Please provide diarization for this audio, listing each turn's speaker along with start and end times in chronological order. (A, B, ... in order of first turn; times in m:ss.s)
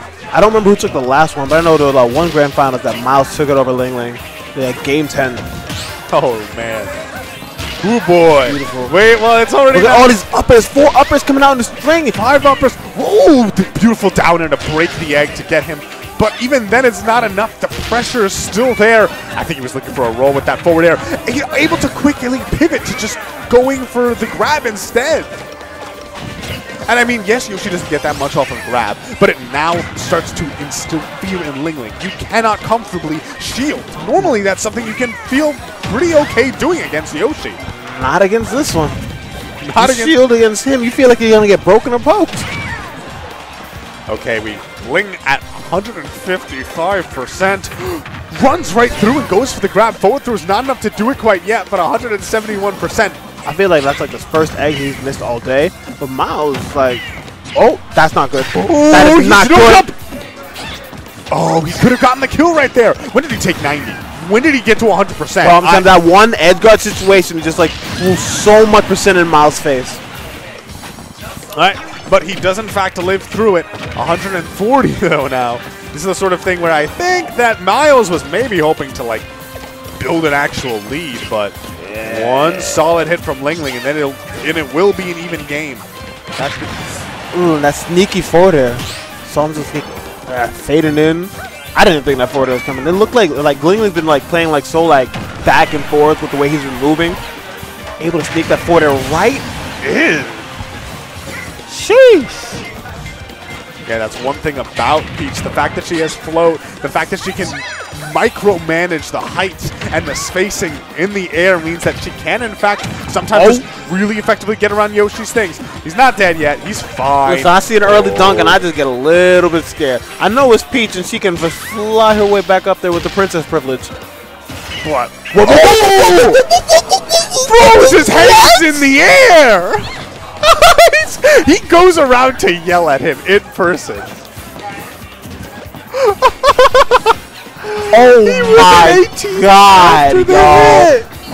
0:00.3-0:05.4 A
0:06.1-0:07.0 B
0:07.8-0:10.2 B
0:08.4-0:08.9 A
0:09.7-0:12.2 A
0:12.1-0:25.3 B
0:26.9-0:37.6 B
0:37.7-0:39.0 A
0:39.6-0:40.2 B
0:39.8-0:42.5 A
0:44.1-0:53.2 B
0:53.4-0:59.9 A
0:58.5-0:59.9 B
1:01.3-1:05.9 B
1:05.4-1:10.0 A
1:11.5-1:19.3 B
1:20.0-1:27.0 B
1:21.8-1:22.9 A
1:27.3-1:37.2 A
1:38.0-1:40.4 A
1:41.7-1:42.6 A
1:43.8-1:58.6 B
1:53.3-1:53.6 A
1:57.2-2:03.9 A
2:04.8-2:06.6 B
2:05.0-2:08.9 A
2:07.4-2:09.9 B
2:10.4-2:14.2 B
2:15.9-2:21.0 B
2:17.9-2:21.0 A